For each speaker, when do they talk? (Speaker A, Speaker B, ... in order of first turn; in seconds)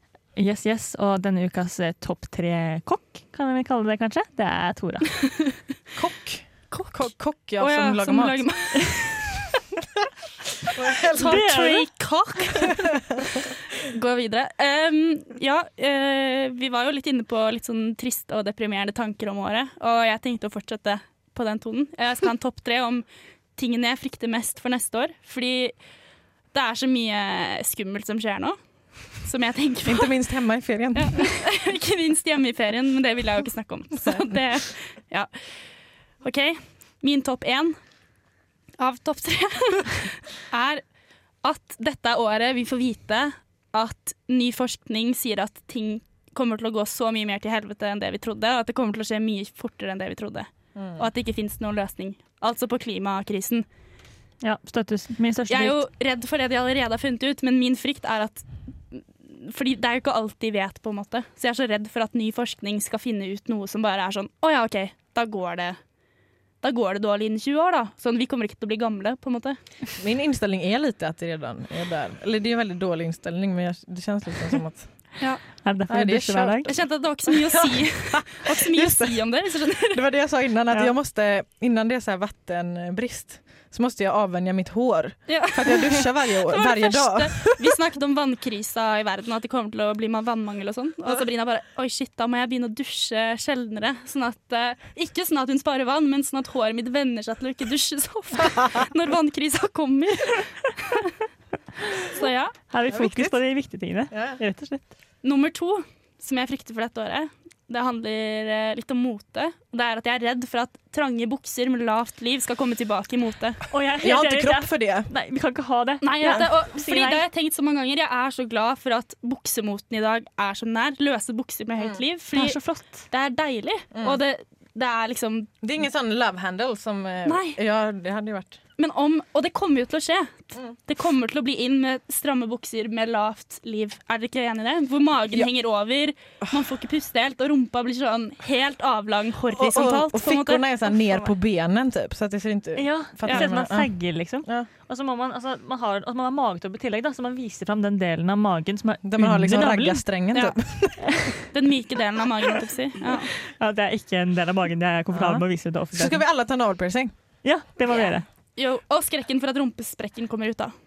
Speaker A: 0.4-5.2, 11.2-11.9, 54.4-55.8, 75.6-76.7, 102.7-104.9, 113.7-117.2, 122.3-123.1, 142.8-150.1, 151.1-151.3, 153.6-156.2, 157.4-158.3
Speaker B: 6.0-8.5, 10.7-11.5, 12.6-13.2, 29.9-31.3, 50.8-51.1, 70.0-74.9, 75.9-87.7, 102.9-103.3, 104.1-104.4, 114.0-115.1, 125.6-128.6, 139.5-143.9, 144.4-144.7, 149.0-151.3, 155.1-157.1
Speaker C: 6.7-9.4, 11.1-13.0, 13.8-23.1, 23.6-25.7, 26.5-28.6, 29.2-30.2, 30.9-35.3, 36.2-37.8, 38.8-40.8, 41.4-53.7, 55.5-65.8, 66.6-69.6, 76.7-80.1, 85.3-101.1, 102.1-102.5, 105.2-113.6, 116.0-125.5, 127.2-127.6, 128.8-140.7, 151.5-153.3, 157.9-160.7